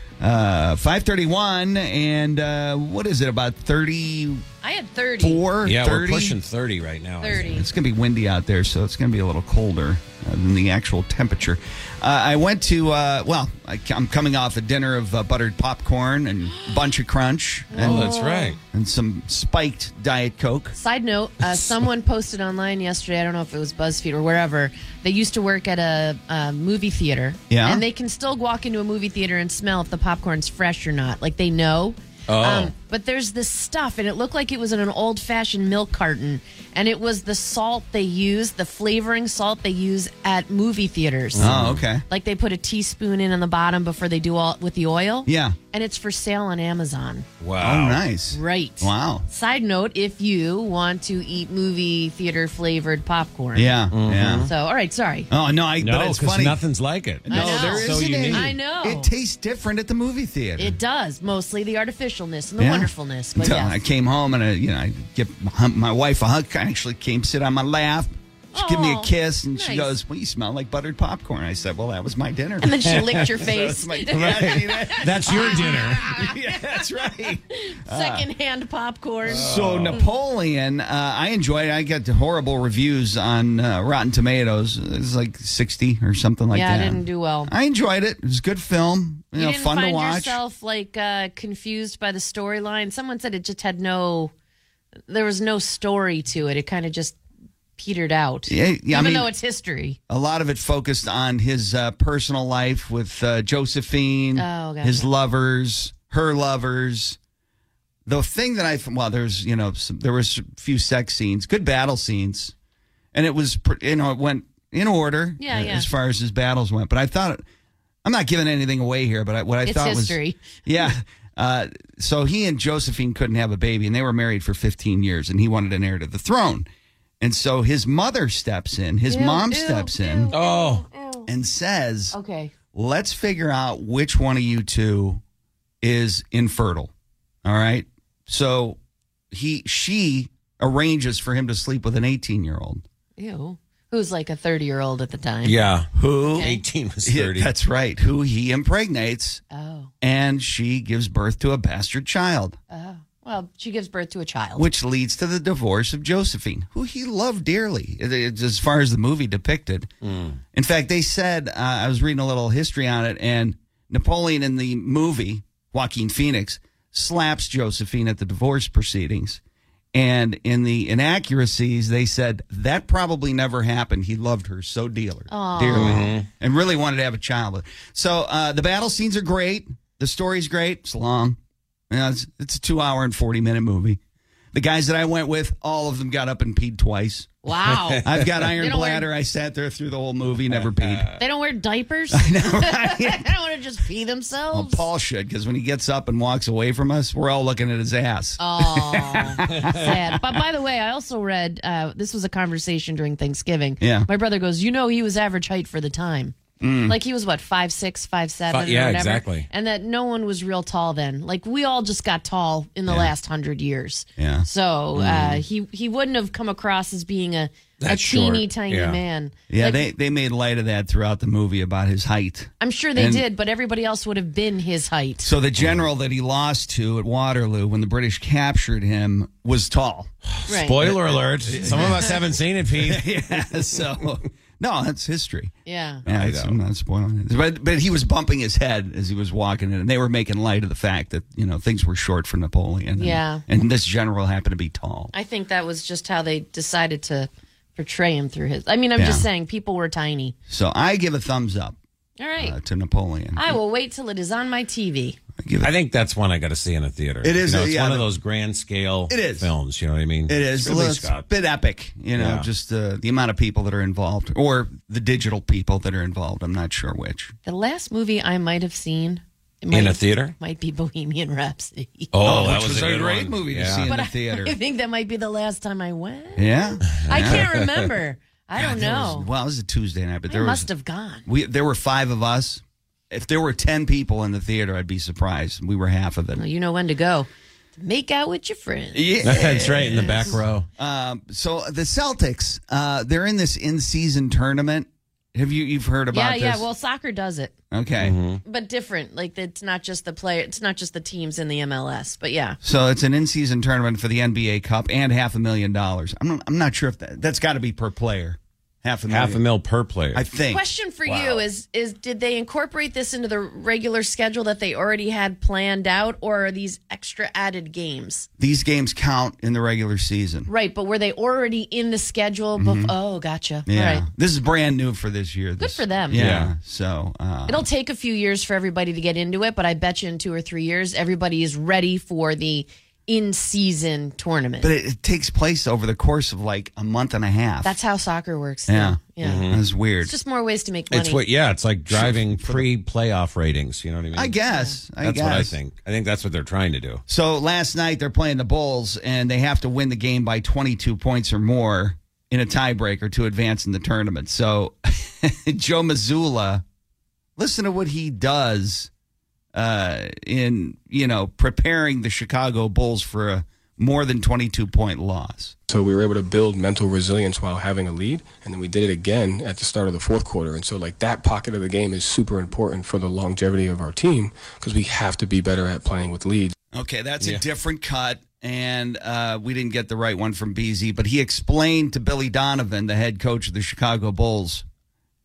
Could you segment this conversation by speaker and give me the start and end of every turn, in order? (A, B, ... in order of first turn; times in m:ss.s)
0:00.2-0:04.4 A
0:04.6-0:05.4 B
0:05.2-0:06.4 A
0:05.6-0:07.5 C
0:07.2-0:07.7 B
0:07.5-0:18.2 A
0:17.7-0:18.6 B
0:17.8-0:18.6 C
0:18.7-0:20.8 A
0:20.8-0:41.5 B
0:27.5-0:27.8 A
0:32.3-0:32.7 C
0:41.3-0:41.9 C
0:41.4-0:42.0 A
0:42.1-0:47.3 B
0:45.3-0:45.6 A
0:47.4-0:48.0 C
0:47.6-0:49.3 A
0:48.3-0:53.8 B
0:53.6-0:54.5 A
0:53.9-0:54.5 C
0:54.4-0:55.3 B
0:55.3-0:56.6 A
0:55.8-0:58.6 C
0:57.2-1:00.8 A
0:57.3-0:59.1 B
1:00.6-1:03.8 B
1:02.6-1:18.3 A
1:08.5-1:09.9 B
1:12.6-1:16.6 B
1:12.8-1:13.3 C
1:14.1-1:16.1 C
1:17.5-1:19.5 B
1:19.3-1:20.0 C
1:19.3-1:30.4 A
1:26.5-1:27.5 B
1:29.4-1:34.3 B
1:35.1-1:37.2 B
1:37.8-1:40.0 B
1:38.5-1:39.3 A
1:40.1-1:47.2 A
1:44.4-1:45.1 B
1:48.1-1:52.5 A
1:53.1-1:57.4 A
1:55.4-1:55.9 B
1:58.0-2:06.7 A
1:59.6-2:00.4 B
2:07.2-2:10.3 A
2:09.1-2:11.3 B
2:10.3-2:10.9 C
2:11.3-2:12.2 A
2:12.1-2:12.5 B
2:12.7-2:15.2 A
2:15.8-2:16.9 A
2:17.4-2:18.8 A
2:19.3-2:22.8 A
2:23.2-2:25.7 B
2:25.4-2:27.5 C
2:26.0-2:26.5 A
2:26.3-2:26.6 B
2:27.0-2:29.4 A
2:29.5-2:29.9 B
2:30.0-2:32.6 A
2:32.7-2:34.7 B
2:34.6-2:39.9 A
2:40.0-2:40.4 C
2:40.5-2:49.4 A
2:49.9-3:01.4 A
2:55.3-2:56.1 B
2:55.7-2:56.3 C
3:01.9-3:04.0 A
3:04.5-3:07.3 A
3:07.4-3:09.1 B
3:08.0-3:11.1 A
3:11.2-3:14.9 B
3:12.1-3:13.3 A
3:14.5-3:20.2 A
3:18.4-3:26.4 B
3:23.8-3:24.1 A
3:26.6-3:27.0 A
3:26.9-3:39.8 B
3:28.5-3:29.5 C
3:34.2-3:34.5 A
3:35.0-3:35.4 C
3:37.8-3:39.0 C
3:39.5-3:43.2 A
3:42.6-3:45.3 B
3:45.2-3:50.1 A
3:45.6-3:45.8 C
3:50.3-3:53.2 C
3:50.5-3:50.8 B
3:50.8-3:52.2 A
3:52.8-4:05.1 A
3:55.7-3:56.0 B
3:56.1-3:56.6 C
4:03.0-4:03.4 B
4:05.1-4:10.4 B
4:09.0-4:09.3 A
4:10.5-4:11.8 A
4:12.2-4:12.6 B
4:12.4-4:13.6 A
4:13.4-4:15.2 B
4:15.4-4:15.7 A
4:15.6-4:21.3 C
4:17.2-4:18.1 A
4:19.1-4:19.5 A
4:20.3-4:27.3 A
4:22.2-4:22.5 C
4:27.4-4:32.1 B
4:29.7-4:30.4 C
4:32.1-4:33.9 C
4:32.2-4:34.6 A
4:33.9-4:39.3 B
4:36.4-4:37.5 A
4:36.9-4:37.7 C
4:38.6-4:40.7 A
4:40.3-4:41.2 B
4:41.3-4:46.4 A
4:46.4-4:49.3 B
4:48.9-4:50.2 A
4:49.2-4:50.7 C
4:49.9-4:50.3 B
4:50.8-4:56.7 A
4:56.1-4:57.5 B
4:57.7-4:58.2 A
4:58.0-4:58.4 C
4:58.4-5:02.6 B
5:02.6-5:09.4 A
5:09.1-5:10.2 C
5:10.1-5:11.4 A
5:10.5-5:18.3 B
5:18.4-5:20.5 A
5:20.5-5:24.1 B
5:22.6-5:22.9 A
5:23.7-5:27.7 A
5:25.6-5:26.2 B
5:26.1-5:26.5 C
5:27.5-5:34.7 B
5:34.6-5:37.8 A
5:37.6-5:39.5 B
5:38.7-5:40.1 A
5:39.2-5:39.6 C
5:40.0-5:41.2 B
5:40.9-5:44.4 C
5:41.9-5:42.7 A
5:44.1-5:45.6 A
5:44.5-5:44.8 B
5:45.0-5:47.0 C
5:47.1-5:56.6 A
5:57.4-5:58.9 A
5:59.5-6:05.6 A
6:05.7-6:16.5 D
6:16.7-6:24.6 A